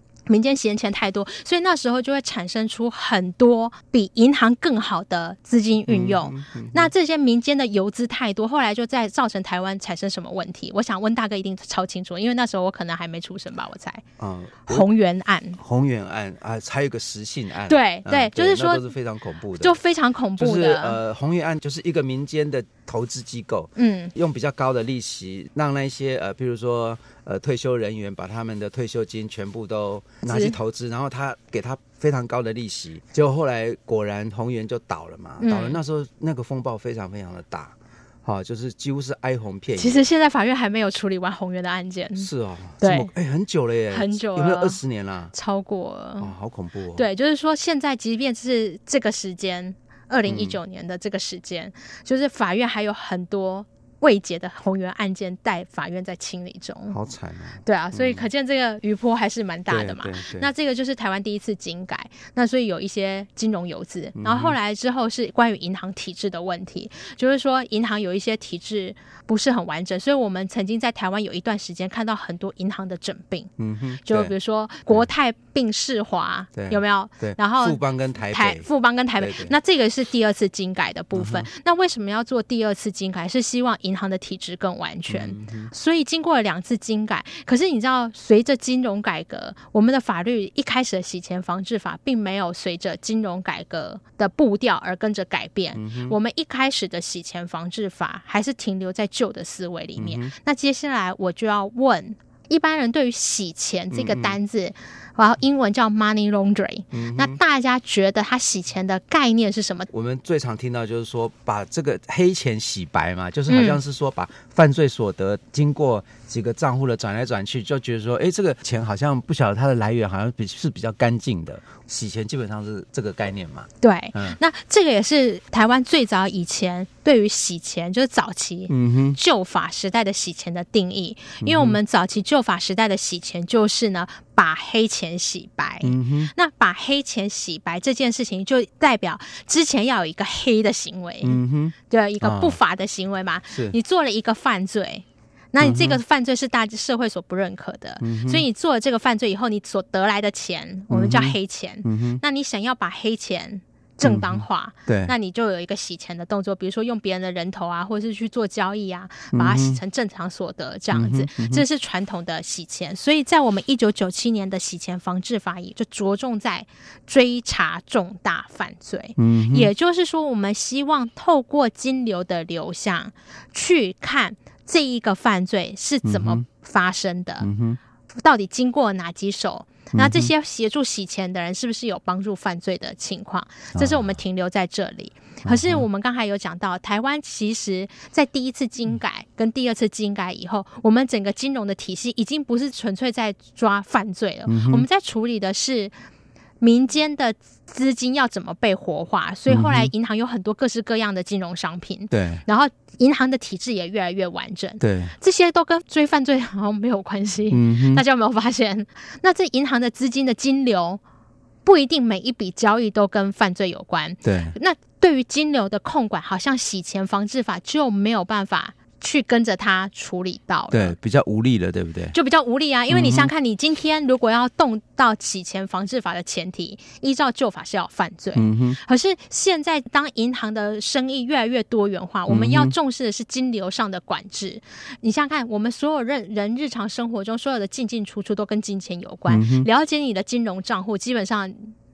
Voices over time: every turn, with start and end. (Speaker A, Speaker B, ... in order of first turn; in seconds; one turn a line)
Speaker A: 0.3-14.0
Speaker B: 5.9-6.9
Speaker B: 14.2-14.9
Speaker A: 14.7-15.6
Speaker B: 15.6-19.8
Speaker A: 17.7-18.9
Speaker A: 19.6-21.0
Speaker B: 20.4-40.0
Speaker A: 23.8-24.1
Speaker A: 30.2-30.5
Speaker A: 35.4-35.8
Speaker A: 39.8-42.3
Speaker B: 42.2-45.3
Speaker A: 42.8-43.1
Speaker A: 43.9-44.8
Speaker A: 45.3-46.3
Speaker B: 46.2-47.0
Speaker A: 46.9-57.0
Speaker B: 50.3-50.6
Speaker B: 56.9-58.3
Speaker A: 57.6-73.5
Speaker B: 59.7-60.5
Speaker B: 64.2-64.5
Speaker B: 73.6-74.3
Speaker A: 74.0-109.9
Speaker B: 76.5-78.7
Speaker B: 79.2-79.5
Speaker B: 81.1-81.5
Speaker B: 85.1-85.7
Speaker B: 95.8-96.2
Speaker B: 100.0-100.3
Speaker B: 103.9-104.4
Speaker B: 106.9-107.4
Speaker B: 109.9-124.4
Speaker A: 113.5-113.8
Speaker A: 123.8-177.5
Speaker B: 128.7-129.2
Speaker B: 131.4-131.8
Speaker B: 135.8-136.3
Speaker B: 141.2-142.6
Speaker B: 143.5-143.8
Speaker B: 145.6-146.0
Speaker B: 148.0-148.4
Speaker B: 150.9-152.2
Speaker B: 154.0-155.1
Speaker B: 159.3-159.8
Speaker B: 160.9-161.6
Speaker B: 169.2-169.7
Speaker B: 176.0-176.4
Speaker B: 177.4-177.8
Speaker A: 178.2-195.9
Speaker B: 179.9-180.3
Speaker B: 183.8-184.1
Speaker B: 185.4-185.8
Speaker B: 194.5-194.8
Speaker A: 196.6-211.0
Speaker B: 199.5-199.9
Speaker B: 202.1-202.4
Speaker B: 204.8-205.1
Speaker B: 207.5-208.0
Speaker A: 211.6-220.9
Speaker B: 214.2-214.6
Speaker B: 220.7-222.2
Speaker A: 222.1-241.7
Speaker B: 222.9-223.3
Speaker B: 228.3-228.8
Speaker B: 232.3-232.7
Speaker B: 239.3-239.7